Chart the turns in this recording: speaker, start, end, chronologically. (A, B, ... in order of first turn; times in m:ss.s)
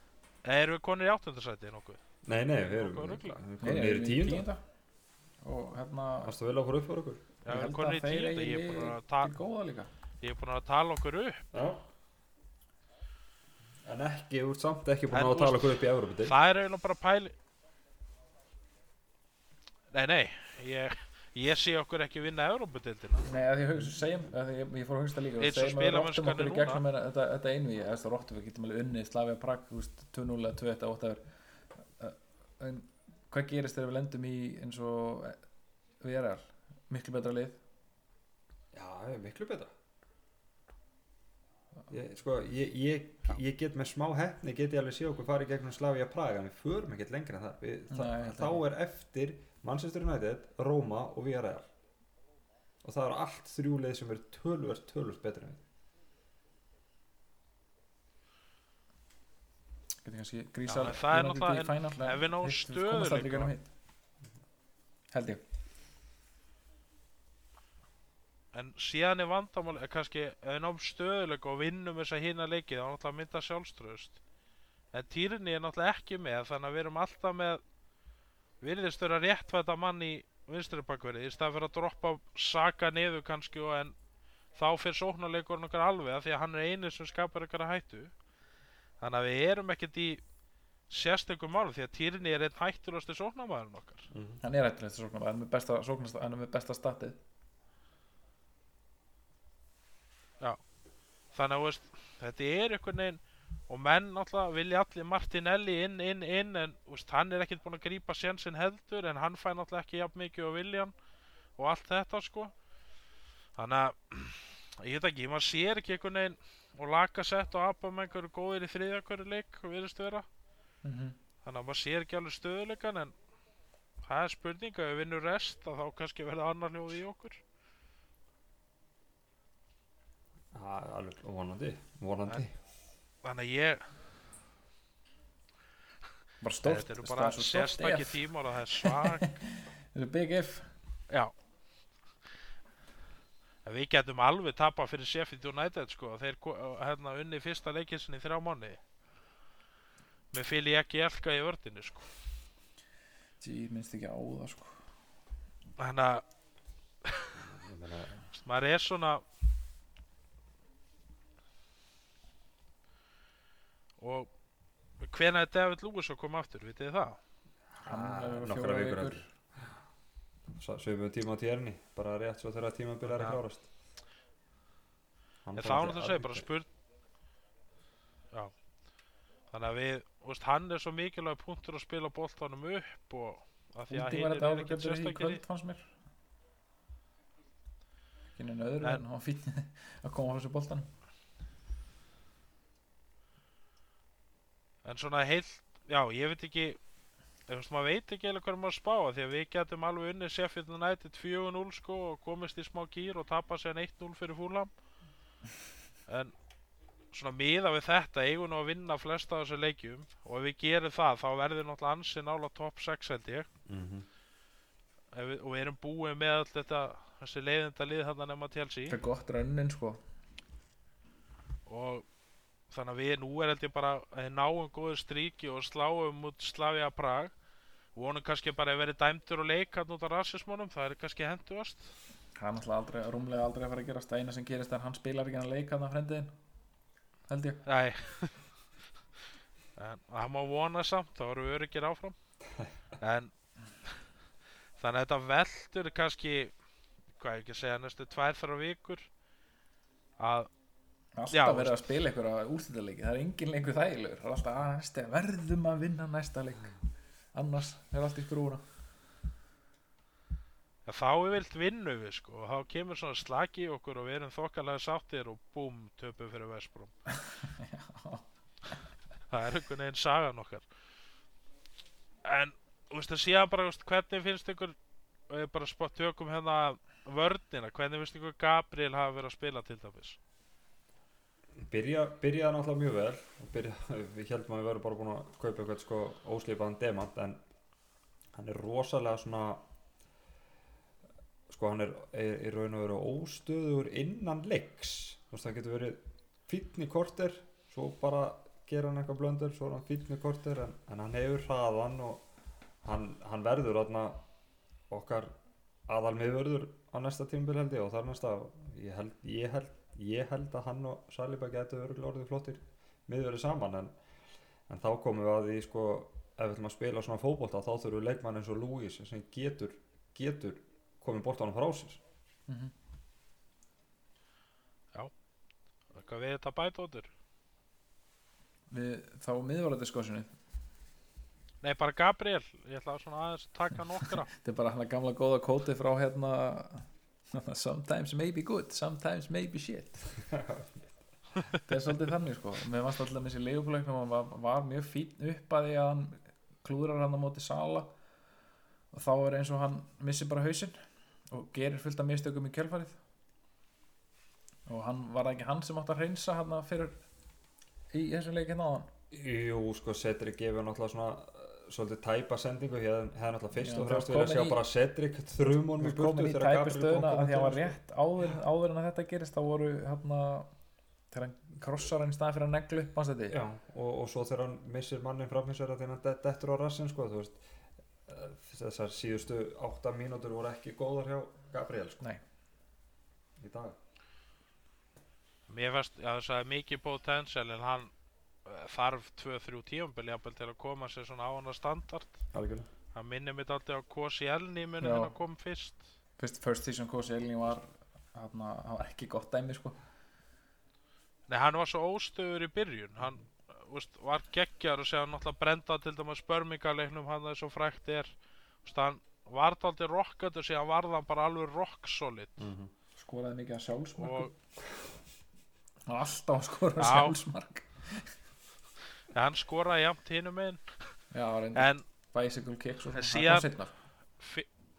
0:00.4-0:02.0 A
0:02.2-0:04.5 B
0:02.6-0:03.4 A
0:03.6-0:04.6 C
0:05.4-0:06.3 C
0:06.2-0:07.3 B
0:07.4-0:09.3 A
0:07.5-0:09.9 C
0:10.2-0:11.4 A
0:11.5-0:11.8 B
0:13.8-0:16.4 B
0:15.1-0:17.3 A
0:19.9-0:23.3 A
0:23.2-0:31.2 C
0:25.4-0:26.8 A
0:32.0-0:35.4 C
0:36.0-0:37.6 C
0:38.7-0:39.7 B
0:41.9-0:51.7 B
0:47.9-0:48.6 C
0:52.8-0:55.6 B
1:00.0-1:03.7 C
1:00.7-1:03.5 A
1:05.1-1:05.4 C
1:08.5-1:14.2 A
1:14.9-1:17.6 A
1:18.6-1:24.0 A
1:24.5-1:28.1 A
1:29.0-1:30.2 A
1:30.9-1:34.1 A
1:34.1-1:34.4 B
1:34.4-1:37.2 C
1:41.3-1:50.9 A
1:51.6-1:52.5 A
1:53.6-2:00.2 A
2:00.8-2:01.2 C
2:01.4-2:03.1 A
2:04.0-2:07.4 A
2:10.5-2:12.5 B
2:13.2-2:14.0 A
2:16.4-2:20.7 C
2:16.6-2:19.4 A
2:23.6-2:28.8 A
2:30.3-2:32.1 A
2:33.4-2:34.8 C
2:35.8-2:36.2 A
2:37.0-2:37.4 A
2:37.4-2:38.2 B
2:38.3-2:39.2 A
2:44.0-2:44.3 A
2:45.0-2:47.2 A
2:47.7-2:49.7 B
2:47.8-2:49.2 C
2:50.5-2:53.7 B
2:53.0-2:53.4 A
2:55.4-2:56.5 B
2:55.6-2:56.7 A
2:59.5-3:05.4 A
3:03.9-3:05.9 C
3:08.4-3:10.9 C
3:14.8-3:16.8 A
3:17.5-3:24.7 A
3:26.1-3:26.3 A
3:27.1-3:33.5 A
3:33.7-3:34.1 B
3:35.1-3:39.0 A
3:38.9-3:40.0 C
3:41.6-3:42.0 A
3:42.7-3:47.3 A
3:47.9-3:51.9 A
3:52.4-3:56.3 C
3:57.3-3:57.6 C
3:57.6-3:58.4 A
3:59.8-4:02.2 A
4:03.0-4:03.3 A
4:04.8-4:06.5 A
4:07.2-4:09.1 A
4:10.2-4:10.5 A
4:11.1-4:16.8 C
4:11.3-4:11.8 A
4:17.3-4:18.6 C
4:20.8-4:26.9 A
4:27.4-4:28.2 C
4:29.3-4:30.6 A
4:32.2-4:34.8 A
4:35.3-4:40.2 A
4:41.6-4:47.4 B
4:48.3-4:49.6 B
4:51.5-5:02.2 B
5:02.8-5:04.2 B
5:04.9-5:05.4 B
5:05.9-5:14.0 B
5:14.7-5:22.0 B
5:22.5-5:22.7 C
5:25.9-5:27.1 A
5:28.7-5:30.3 C
5:31.6-5:34.3 A
5:33.9-5:40.1 C
5:40.3-5:41.0 B
5:41.6-5:47.9 C
5:48.9-5:53.0 C
5:54.7-5:57.0 C
5:57.9-5:58.9 C
5:59.1-6:07.8 B
6:03.6-6:04.6 C
6:05.8-6:10.5 C
6:11.1-6:13.4 C
6:13.3-6:17.4 B
6:18.0-6:22.0 B
6:23.4-6:23.8 B
6:25.5-6:27.9 A
6:28.4-6:32.2 A
6:32.3-6:32.7 B
6:32.9-6:35.8 A
6:34.8-6:35.1 C
6:36.2-6:39.8 C
6:41.3-6:48.1 A
6:48.6-6:52.5 A
6:52.4-6:52.7 B
6:53.0-6:54.3 C
6:54.0-6:54.3 A
6:55.9-6:58.1 C
6:56.8-6:57.2 A
6:59.1-7:00.6 A
7:01.1-7:03.7 C
7:01.5-7:01.8 A
7:02.9-7:03.5 A
7:04.2-7:04.5 A